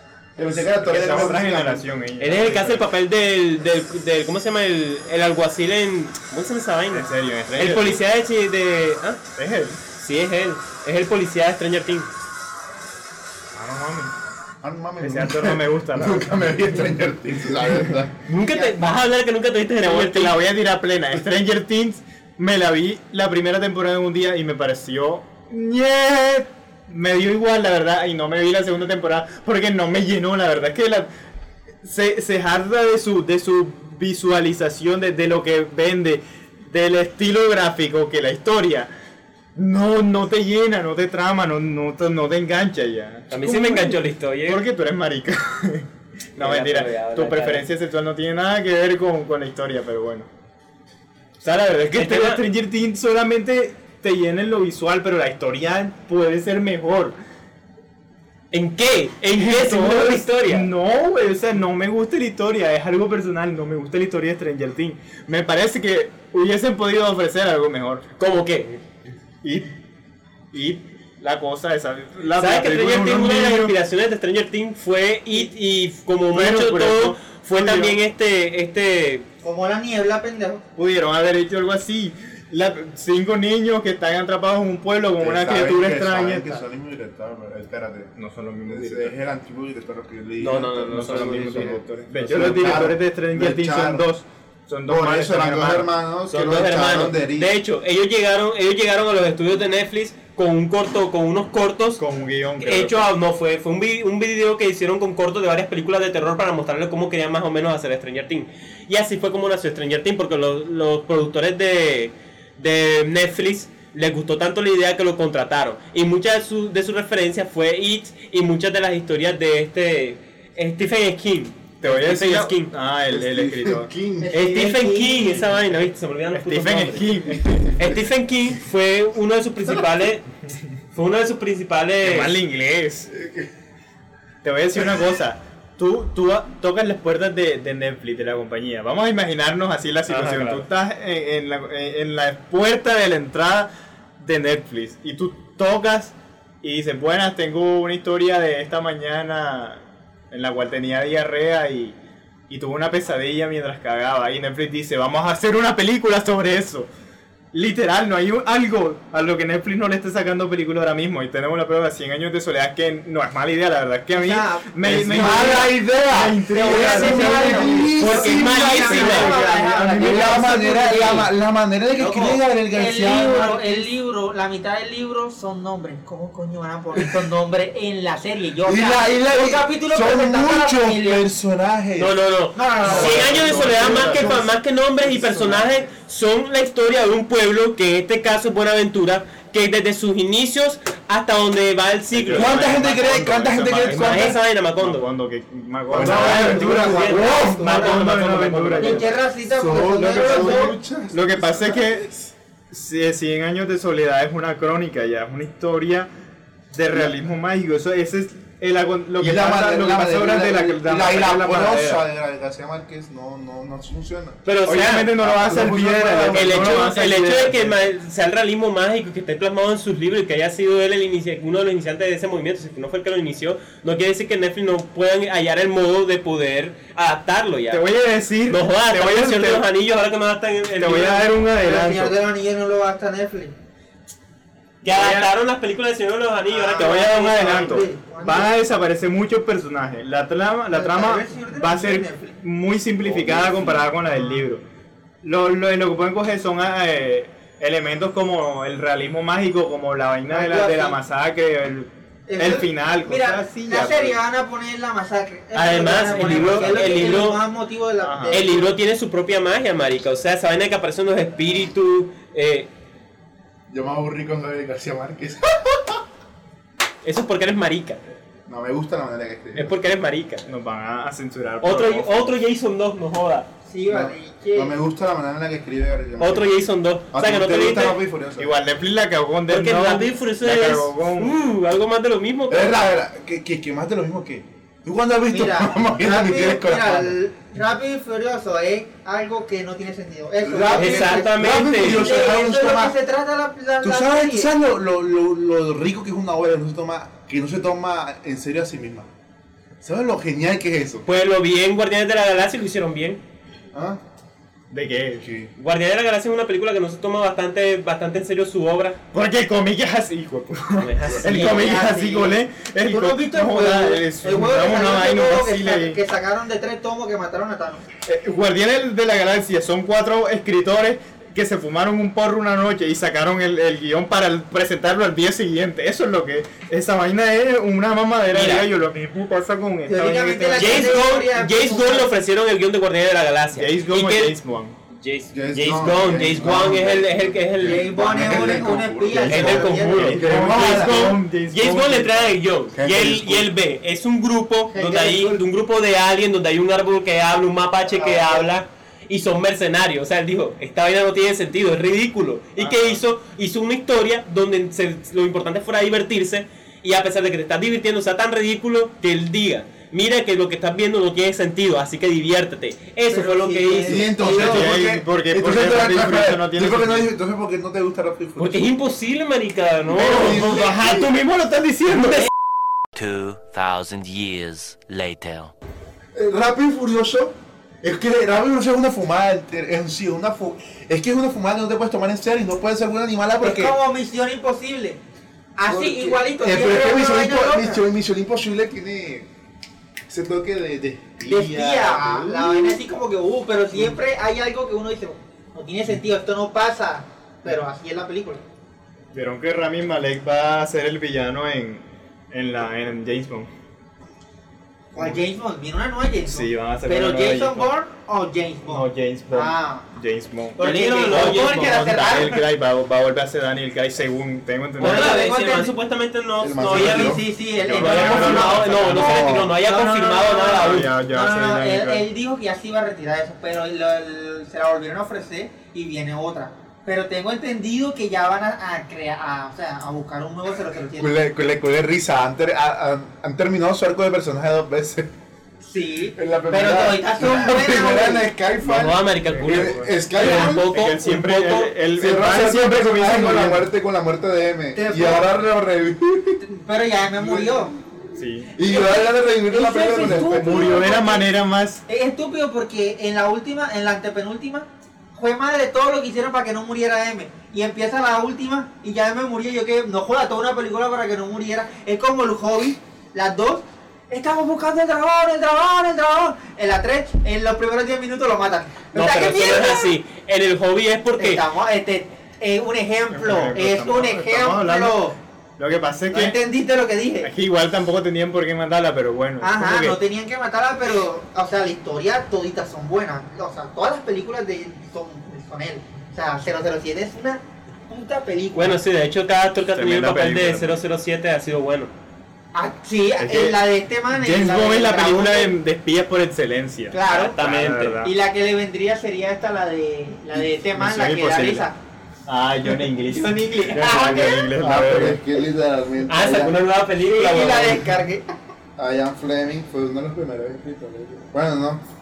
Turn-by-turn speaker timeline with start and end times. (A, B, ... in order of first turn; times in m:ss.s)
0:00.4-0:01.8 A
0:00.7-0:02.9 B
0:02.2-0:09.2 C
0:06.9-0:08.0 B
0:09.4-0:09.8 B
0:09.9-0:12.1 C
0:13.6-0:14.1 B
0:14.6-0:18.2 A
0:15.0-0:16.8 B
0:18.3-0:20.4 C
0:18.5-0:18.8 D
0:19.8-0:31.1 B
0:31.8-0:38.9 B
0:39.6-0:50.3 B
0:43.3-0:44.6 C
0:46.4-0:47.7 C
0:51.4-0:57.2 B
0:51.9-0:52.4 C
0:58.5-1:00.7 C
0:59.4-1:08.0 B
1:08.2-1:08.8 C
1:09.4-1:09.7 B
1:10.5-1:13.7 B
1:12.4-1:19.3 C
1:16.3-1:18.0 B
1:19.4-1:20.6 D
1:20.8-1:26.6 B
1:25.2-1:28.1 A
1:28.2-1:29.1 B
1:28.7-1:34.1 A
1:30.4-1:32.8 C
1:30.9-1:35.9 B
1:34.9-1:37.5 A
1:36.3-1:42.0 C
1:42.0-1:43.0 B
1:42.6-2:02.7 C
2:01.8-2:03.9 B
2:03.1-2:04.4 A
2:04.2-2:05.4 D
2:04.3-2:07.2 C
2:06.3-2:07.9 B
2:07.8-2:10.3 C
2:10.9-2:12.4 C
2:12.0-2:13.1 B
2:13.1-2:13.5 A
2:14.4-2:32.0 B
2:20.1-2:20.7 C
2:32.5-2:36.9 B
2:37.5-2:47.9 B
2:44.1-2:45.7 D
2:44.8-2:49.3 A
2:46.5-2:51.3 D
2:48.0-2:49.4 C
2:48.7-2:50.6 B
2:50.0-2:53.9 A
2:52.0-3:01.3 D
2:58.6-3:02.2 A
3:02.0-3:13.1 C
3:02.6-3:04.0 D
3:02.8-3:05.9 A
3:03.1-3:04.4 B
3:12.1-3:19.0 B
3:12.3-3:14.4 A
3:13.8-3:15.1 C
3:15.9-3:17.8 A
3:16.0-3:19.2 C
3:17.6-3:18.0 D
3:18.8-3:20.7 D
3:19.5-3:22.3 A
3:20.0-3:22.0 B
3:22.7-3:26.1 B
3:26.7-3:32.0 B
3:29.2-3:34.4 A
3:34.4-3:35.1 C
3:34.7-3:37.8 B
3:35.2-3:37.0 A
3:36.2-3:47.8 C
3:47.7-3:49.7 B
3:48.5-3:51.4 C
3:50.8-3:52.2 B
3:51.6-3:53.5 D
3:54.8-3:57.8 C
3:54.9-3:55.3 B
3:56.5-3:58.5 D
3:56.8-4:04.6 B
4:00.7-4:02.4 D
4:03.0-4:03.9 C
4:04.2-4:04.4 D
4:05.2-4:14.2 B
4:10.3-4:11.0 D
4:12.3-4:18.7 D
4:15.5-4:17.5 C
4:15.9-4:17.3 B
4:18.0-4:18.6 B
4:18.3-4:22.7 C
4:23.7-4:26.0 A
4:27.0-4:28.0 C
4:28.5-4:29.8 A
4:29.6-4:30.5 C
4:30.5-4:32.4 B
4:31.6-4:33.5 C
4:33.7-4:34.8 D
4:33.9-4:38.5 A
4:36.2-4:38.0 C
4:38.4-4:41.4 B
4:39.5-4:42.8 C
4:42.5-4:47.2 A
4:45.3-4:54.5 D
4:50.4-4:53.0 A
4:50.7-4:52.3 C
4:53.8-4:59.1 A
4:59.8-5:01.0 A
5:01.0-5:03.2 C
5:03.7-5:04.0 A
5:04.7-5:05.3 B
5:05.2-5:05.5 A
5:05.6-5:09.0 C
5:09.1-5:16.0 B
5:10.8-5:11.7 C
5:11.2-5:17.9 D
5:18.1-5:31.0 B
5:28.3-5:28.7 C
5:29.9-5:32.1 D
5:30.6-5:34.4 C
5:33.5-5:34.8 B
5:34.9-5:38.7 C
5:35.3-5:41.2 A
5:37.6-5:40.2 D
5:39.2-6:04.7 C
5:39.9-5:42.4 B
5:42.7-5:43.5 A
5:44.7-5:45.4 D
5:47.9-5:48.5 D
5:52.6-5:53.0 B
6:03.1-6:04.4 D
6:03.8-6:08.7 A
6:04.2-6:07.1 B
6:08.4-6:12.3 C
6:09.9-6:11.1 A
6:13.0-6:15.5 E
6:16.1-6:23.8 A
6:23.4-6:25.0 D
6:25.6-6:27.8 D
6:25.7-6:29.3 A
6:30.1-6:32.8 A
6:31.3-6:38.4 D
6:39.1-6:43.5 B
6:44.9-6:49.9 D
6:45.0-6:45.2 B
6:46.2-6:47.7 B
6:48.7-6:55.3 B
6:50.6-6:52.4 D
6:50.6-6:52.3 C
6:54.8-6:57.2 C
6:54.8-6:55.8 D
6:56.4-6:57.2 A
6:56.7-6:58.7 B
6:56.7-7:11.2 D
6:57.8-7:00.9 C
6:58.9-6:59.6 A
7:00.6-7:02.1 B
7:11.0-7:15.1 A
7:15.6-7:18.3 D
7:16.2-7:20.7 A
7:18.6-7:21.8 C
7:19.2-7:23.6 B
7:22.0-7:26.4 A
7:24.7-7:25.3 D
7:26.4-7:27.7 D
7:27.2-7:27.7 A
7:28.2-7:28.5 B
7:28.6-7:30.7 A
7:28.6-7:31.3 D
7:30.0-7:31.8 B
7:31.9-7:50.0 D
7:48.9-7:51.4 C
7:51.2-7:55.2 D
7:53.1-7:56.4 B
7:56.1-7:57.3 D
7:57.2-8:00.0 B
7:59.4-8:08.8 D
8:08.5-8:11.9 C
8:09.7-8:10.8 B
8:12.5-8:15.6 D
8:13.2-8:18.1 B
8:16.9-8:17.4 D
8:17.1-8:18.0 C
8:18.0-8:21.8 D
8:20.4-8:21.7 B
8:22.3-8:25.2 B
8:23.0-8:24.5 D
8:24.6-8:26.6 A
8:26.1-8:27.9 C
8:27.1-8:28.3 D
8:28.8-8:31.8 A